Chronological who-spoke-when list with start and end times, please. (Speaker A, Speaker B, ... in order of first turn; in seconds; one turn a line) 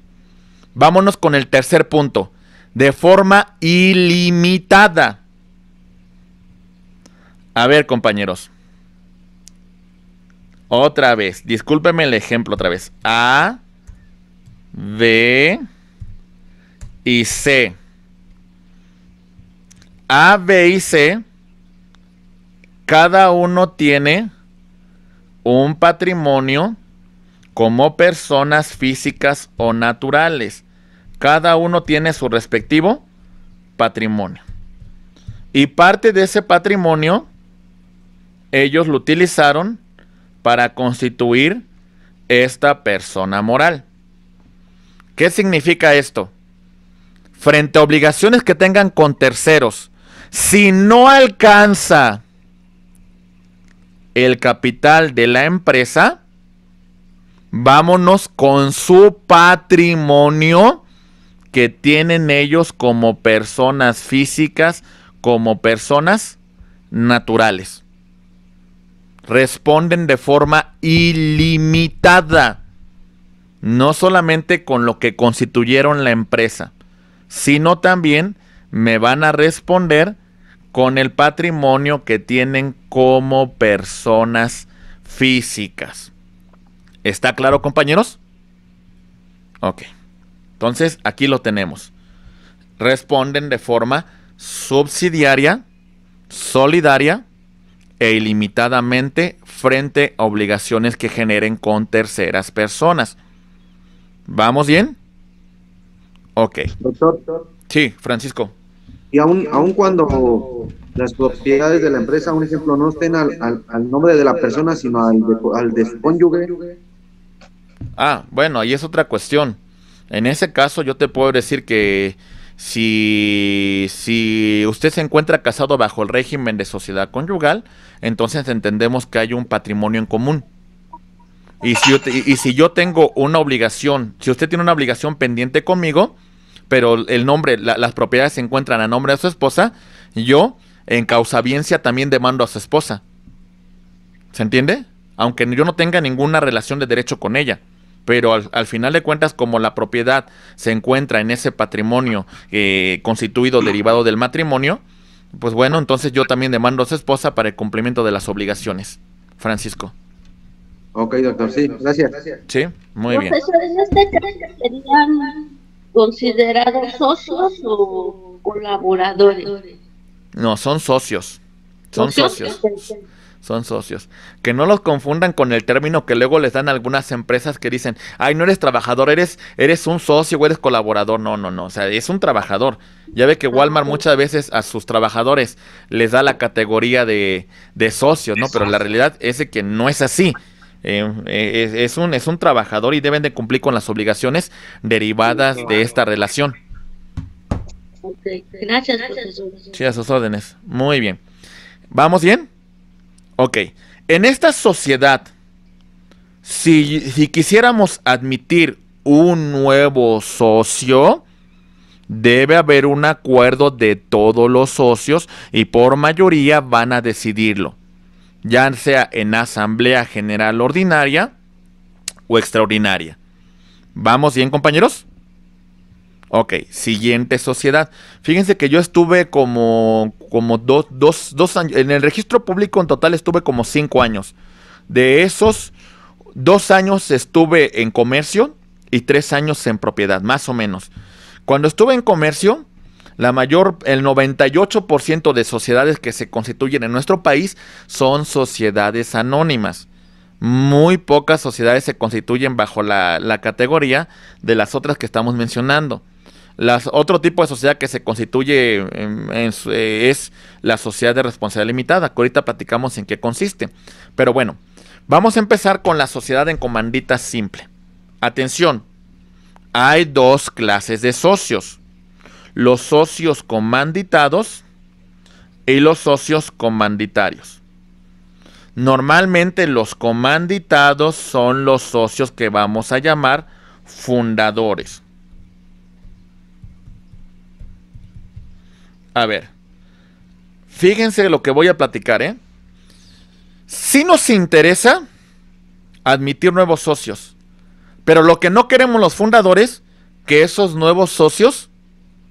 Speaker A: 0.7-5.2
Speaker A: 7.5-8.5
Speaker A: 10.7-13.6
Speaker A: 14.7-15.6
Speaker A: 17.0-17.8
Speaker A: 20.1-21.2
Speaker A: 22.9-24.3
Speaker A: 25.4-26.8
Speaker A: 27.5-30.6
Speaker A: 31.2-33.0
Speaker A: 33.8-34.4
Speaker A: 35.5-37.3
Speaker A: 38.5-39.8
Speaker A: 40.4-41.6
Speaker A: 42.3-43.8
Speaker A: 45.1-46.3
Speaker A: 47.4-52.2
Speaker A: 54.1-56.2
Speaker A: 57.5-60.8
Speaker A: 61.5-66.4
Speaker A: 66.9-67.8
Speaker A: 69.2-72.6
Speaker A: 73.6-76.7
Speaker A: 77.3-80.2
Speaker A: 80.7-86.1
Speaker A: 87.0-88.2
Speaker A: 89.6-89.9
Speaker A: 90.6-91.9
Speaker A: 92.8-95.6
Speaker A: 96.3-97.2
Speaker A: 98.0-103.2
Speaker A: 104.3-105.0
Speaker A: 106.3-106.7
Speaker B: 106.8-107.3
Speaker A: 107.7-108.5
Speaker B: 109.1-116.5
Speaker A: 118.0-119.6
Speaker A: 120.1-130.4
Speaker A: 131.6-136.1
Speaker A: 136.7-143.0
Speaker A: 144.3-154.8
Speaker A: 155.3-159.9
Speaker B: 160.9-162.2
Speaker A: 162.5-163.3
Speaker C: 163.1-169.5
Speaker A: 170.3-171.4
Speaker A: 171.9-172.6
Speaker C: 171.9-173.0
Speaker A: 173.4-196.6
Speaker C: 198.0-199.7
Speaker A: 199.7-201.2
Speaker A: 201.9-202.5
Speaker A: 203.4-205.3
Speaker A: 206.4-211.2
Speaker A: 212.1-217.8
Speaker A: 218.4-221.3
Speaker A: 222.3-223.2
Speaker A: 223.9-225.0
Speaker A: 226.3-234.3
Speaker A: 234.9-235.7
Speaker A: 236.3-240.9
Speaker A: 241.4-242.6
Speaker A: 243.2-249.8
Speaker A: 250.4-256.0
Speaker A: 256.6-267.7
Speaker A: 268.2-268.8
Speaker A: 269.7-271.8
Speaker A: 272.5-274.6
Speaker A: 275.7-277.6
Speaker A: 278.8-285.0
Speaker A: 289.1-289.5
Speaker A: 290.7-292.4
Speaker A: 293.7-295.0
Speaker A: 296.0-297.3
Speaker A: 298.1-301.7